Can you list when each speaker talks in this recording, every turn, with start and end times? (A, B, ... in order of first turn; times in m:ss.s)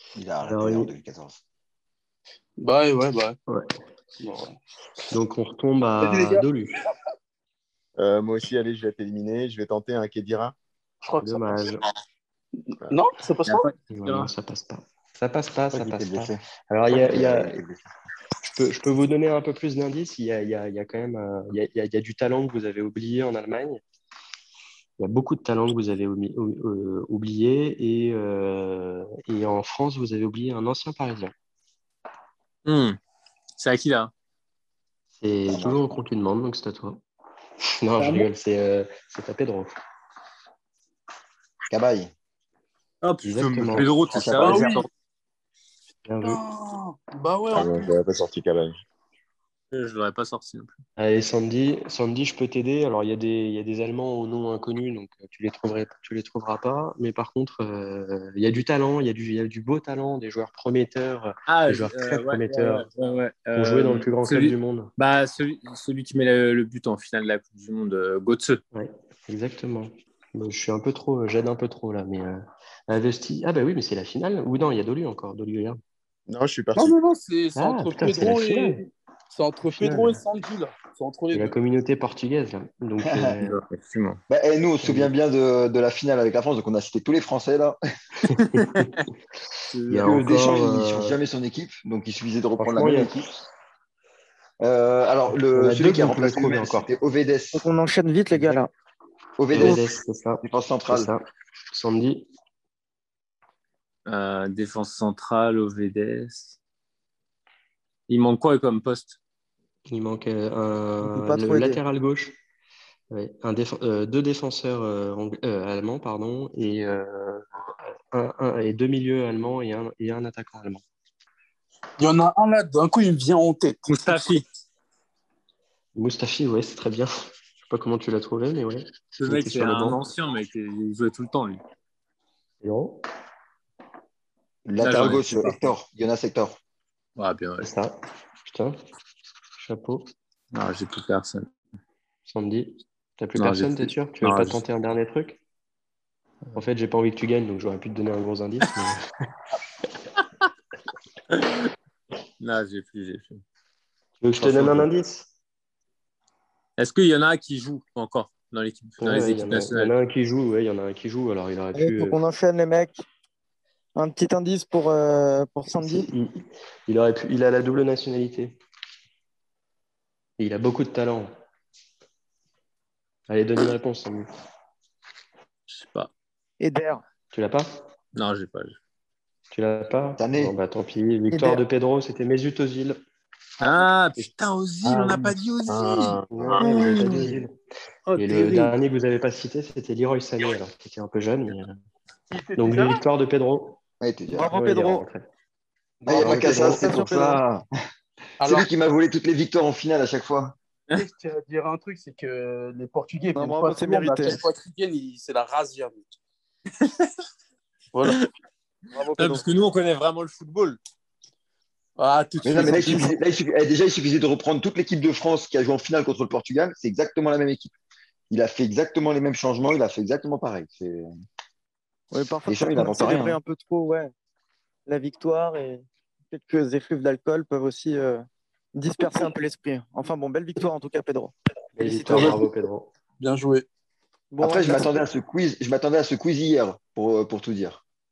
0:00.1-0:01.4 A
0:00.4-0:00.9 B
0:02.6-0:03.4 C
0:03.5-0:03.7 B
0:04.2-0:04.6 C
0:05.1-0:06.7 B
0:06.0-0:06.4 C
0:08.0-0:10.6 D
0:11.0-0:11.7 C
0:11.2-0:11.8 B
0:12.6-0:13.7 C
0:13.4-0:14.3 E
0:13.9-0:17.6 B
0:15.7-0:17.8 A
0:18.4-0:23.8 B
0:25.0-0:31.3 B
0:32.6-0:33.0 E
0:33.6-0:34.1 E
0:35.2-0:37.0 B
0:35.5-0:36.0 A
0:37.6-0:39.7 B
0:38.0-0:38.3 C
0:41.7-0:42.1 A
0:43.0-0:44.8 E
0:43.2-0:43.9 B
0:43.8-0:44.8 A
0:44.4-0:44.8 C
0:46.0-0:46.4 B
0:46.2-0:48.0 C
0:47.5-0:48.8 D
0:49.7-0:50.8 E
0:51.0-1:02.8 B
1:01.5-1:08.6 E
1:03.5-1:04.9 B
1:08.7-1:15.8 B
1:16.3-1:17.0 D
1:16.7-1:21.5 C
1:17.5-1:18.8 B
1:19.7-1:20.2 B
1:21.3-1:23.6 B
1:23.0-1:23.4 A
1:23.4-1:24.2 E
1:24.3-1:27.8 A
1:24.8-1:25.1 B
1:28.2-1:29.1 B
1:28.5-1:29.0 E
1:29.7-1:30.0 E
1:29.9-1:31.2 B
1:29.9-1:33.3 A
1:32.6-1:33.4 B
1:34.6-1:37.7 A
1:35.5-1:36.9 B
1:37.5-1:38.7 F
1:39.4-1:39.9 A
1:39.5-1:42.3 B
1:40.4-1:41.1 A
1:44.1-1:46.6 E
1:48.1-1:49.2 E
1:49.9-1:52.4 B
1:51.0-1:51.8 F
1:53.1-1:57.5 B
1:58.1-2:00.8 B
2:02.0-2:04.2 C
2:03.8-2:04.4 E
2:05.9-2:07.1 B
2:07.6-2:10.0 B
2:09.2-2:11.6 E
2:12.6-2:13.0 B
2:14.6-2:16.6 A
2:14.8-2:15.6 E
2:17.2-2:17.7 E
2:17.6-2:17.9 B
2:18.4-2:18.8 B
2:19.6-2:20.1 B
2:20.5-2:21.5 E
2:22.2-2:25.4 B
2:23.4-2:24.6 E
2:26.5-2:29.0 B
2:31.3-2:31.6 E
2:32.4-2:33.4 E
2:34.2-2:35.3 B
2:34.4-2:34.9 E
2:36.8-2:39.9 E
2:39.0-2:42.1 B
2:41.7-2:43.0 F
2:44.0-2:46.1 F
2:45.8-2:48.6 B
2:50.4-2:51.3 B
2:53.3-2:54.3 B
2:55.7-2:56.1 E
2:56.6-2:57.0 F
2:57.3-2:57.7 B
2:58.1-2:58.8 E
2:59.5-3:03.0 B
3:00.2-3:00.6 A
3:01.3-3:01.6 F
3:03.6-3:07.4 E
3:04.9-3:07.2 D
3:06.3-3:07.5 B
3:08.1-3:08.7 E
3:08.2-3:11.8 B
3:12.3-3:13.0 C
3:12.6-3:13.8 B
3:14.0-3:14.9 A
3:14.3-3:15.0 F
3:14.3-3:15.2 B
3:16.0-3:16.7 C
3:16.0-3:17.6 A
3:16.1-3:17.4 F
3:18.4-3:18.7 C
3:18.4-3:20.6 A
3:20.9-3:26.1 C
3:23.4-3:24.4 F
3:26.8-3:27.1 E
3:27.9-3:28.2 C
3:28.9-3:29.4 F
3:29.2-3:30.8 E
3:32.0-3:33.2 C
3:32.4-3:37.7 A
3:38.3-3:41.1 A
3:42.1-3:44.1 F
3:42.5-3:43.4 A
3:44.8-3:52.4 F
3:51.8-3:52.9 B
3:52.1-3:52.4 C
3:53.2-3:53.6 C
3:54.3-3:55.0 F
3:54.4-3:57.8 A